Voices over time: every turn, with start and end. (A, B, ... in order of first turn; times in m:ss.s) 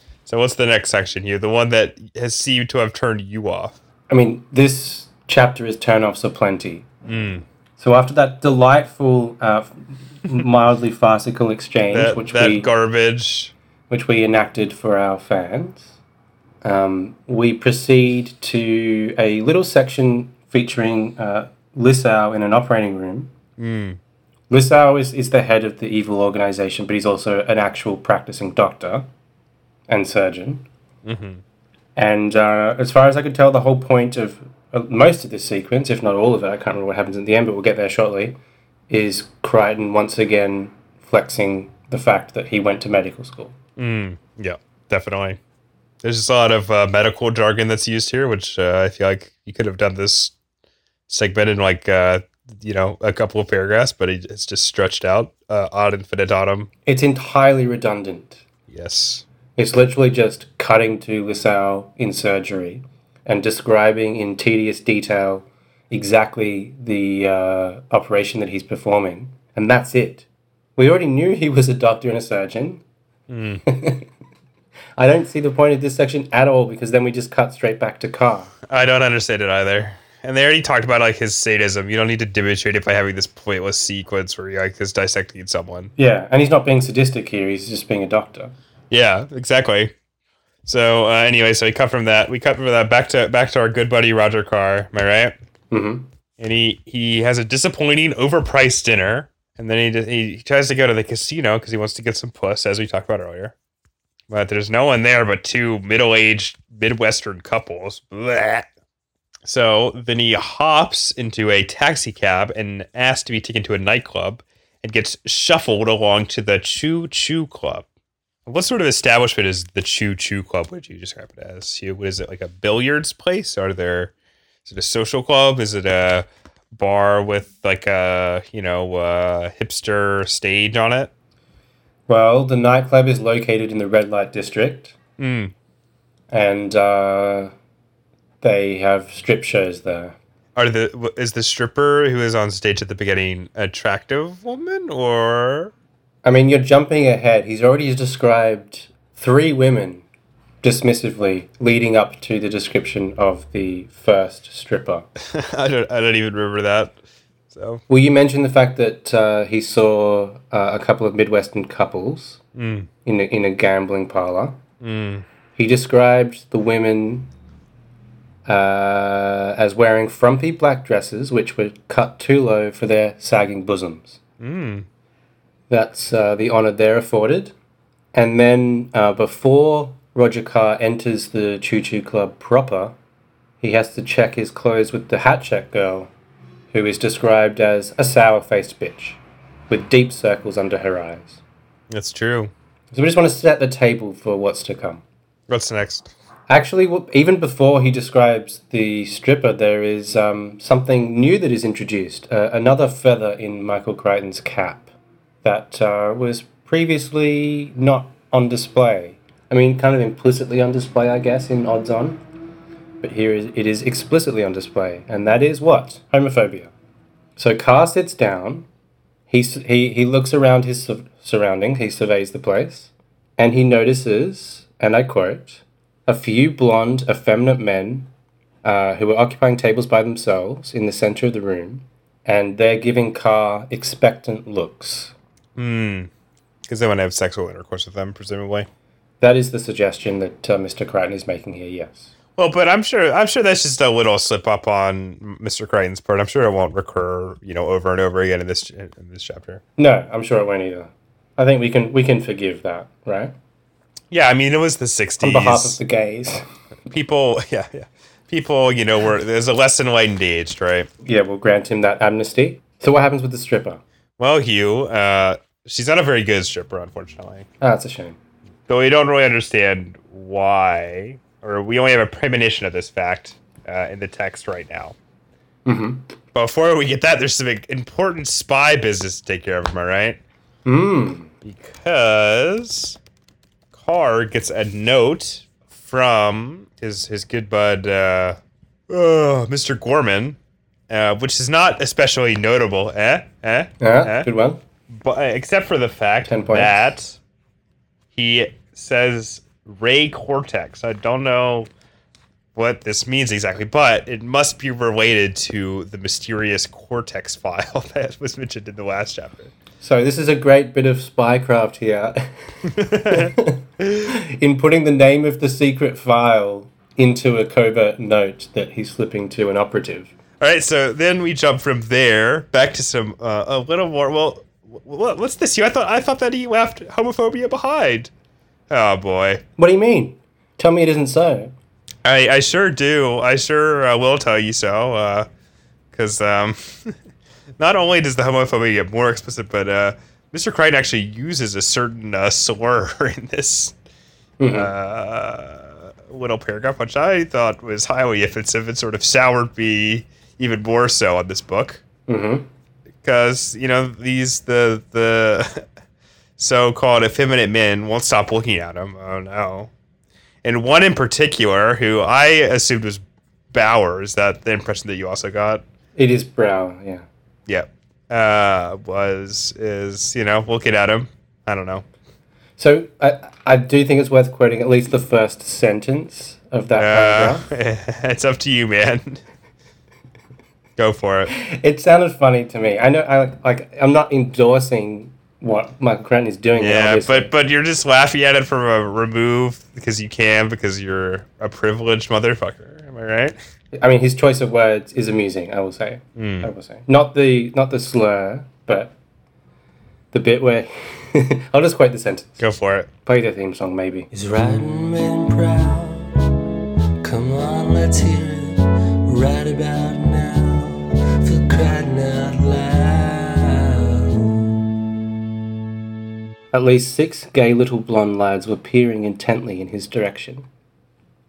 0:00.3-0:03.8 A
0:04.1-0:06.9 B
0:07.0-0:07.4 A
0:07.8-0:12.7 B
0:11.9-0:13.5 A
0:13.9-0:16.0 B
0:16.6-0:23.3 B
0:23.6-0:24.0 A
0:24.5-0:29.1 B
0:29.9-0:30.7 B
0:31.0-0:31.4 A
0:32.0-0:38.4 B
0:38.9-0:43.6 B
0:43.8-0:45.4 A
0:46.0-0:50.4 A
0:51.1-0:56.7 A
0:56.8-0:58.4 B
0:58.7-0:59.3 A
0:59.6-1:12.8 B
1:13.3-1:13.6 A
1:13.6-1:14.1 B
1:15.0-1:18.5 B
1:18.7-1:25.9 A
1:26.0-1:28.6 B
1:28.9-1:29.9 A
1:30.6-1:35.3 A
1:35.7-1:36.1 B
1:36.4-1:43.6 A
1:44.3-1:48.7 A
1:49.5-1:57.9 A
1:58.5-2:04.1 A
2:04.6-2:11.1 A
2:12.1-2:15.0 B
2:15.2-2:15.5 A
2:16.3-2:17.5 B
2:18.4-2:20.2 B
2:20.6-2:25.7 A
2:26.2-2:30.0 B
2:30.6-2:35.1 B
2:35.2-2:37.0 A
2:37.5-2:37.8 A
2:37.9-2:42.4 B
2:42.6-2:42.9 A
2:43.0-2:44.6 B
2:44.8-2:45.2 A
2:45.6-2:47.3 B
2:48.5-2:54.2 B
2:54.4-2:54.9 A
2:55.7-2:57.5 B
2:58.1-3:03.0 B
3:03.6-3:06.1 B
3:06.7-3:11.4 B
3:11.9-3:12.5 A
3:12.9-3:15.0 B
3:15.5-3:16.1 A
3:16.5-3:24.9 B
3:25.4-3:32.2 B
3:33.0-3:36.7 B
3:37.4-3:38.7 B
3:39.3-3:48.1 B
3:48.6-3:55.2 B
3:55.6-3:56.1 A
3:56.7-3:58.7 A
3:59.2-4:02.1 B
4:02.4-4:09.6 A
4:09.8-4:13.3 B
4:14.1-4:15.8 A
4:15.2-4:16.4 B
4:16.9-4:20.9 A
4:21.0-4:23.8 B
4:24.2-4:27.5 A
4:27.6-4:28.2 B
4:28.7-4:35.0 A
4:35.7-4:36.0 B
4:36.3-4:40.2 A
4:40.6-4:41.3 B
4:41.4-4:43.0 A
4:43.7-4:48.4 A
4:48.9-4:50.4 A
4:50.9-4:54.3 A
4:53.8-4:54.6 B
4:54.9-4:57.2 A
4:56.3-4:56.7 B
4:58.1-5:01.7 A
5:02.6-5:09.5 A
5:09.8-5:20.1 B
5:12.8-5:13.3 A
5:20.4-5:28.1 A
5:28.7-5:29.4 A
5:29.6-5:31.5 B
5:32.0-5:35.3 A
5:35.9-5:37.0 A
5:37.6-5:43.8 A
5:44.4-5:44.7 B
5:44.5-5:51.8 A
5:52.1-5:52.5 B
5:53.0-5:55.7 A
5:56.4-5:59.7 A
6:00.4-6:05.6 A
6:06.0-6:07.0 B
6:07.5-6:11.8 A
6:12.6-6:17.4 B
6:16.8-6:19.2 A
6:20.8-6:21.3 A
6:21.3-6:27.3 B
6:26.6-6:33.4 A
6:33.7-6:39.0 B
6:36.2-6:36.5 A
6:40.1-6:42.4 B
6:42.4-6:42.9 A
6:43.1-6:44.1 B
6:44.1-6:46.4 C
6:47.0-6:54.6 C
6:56.5-7:00.5 B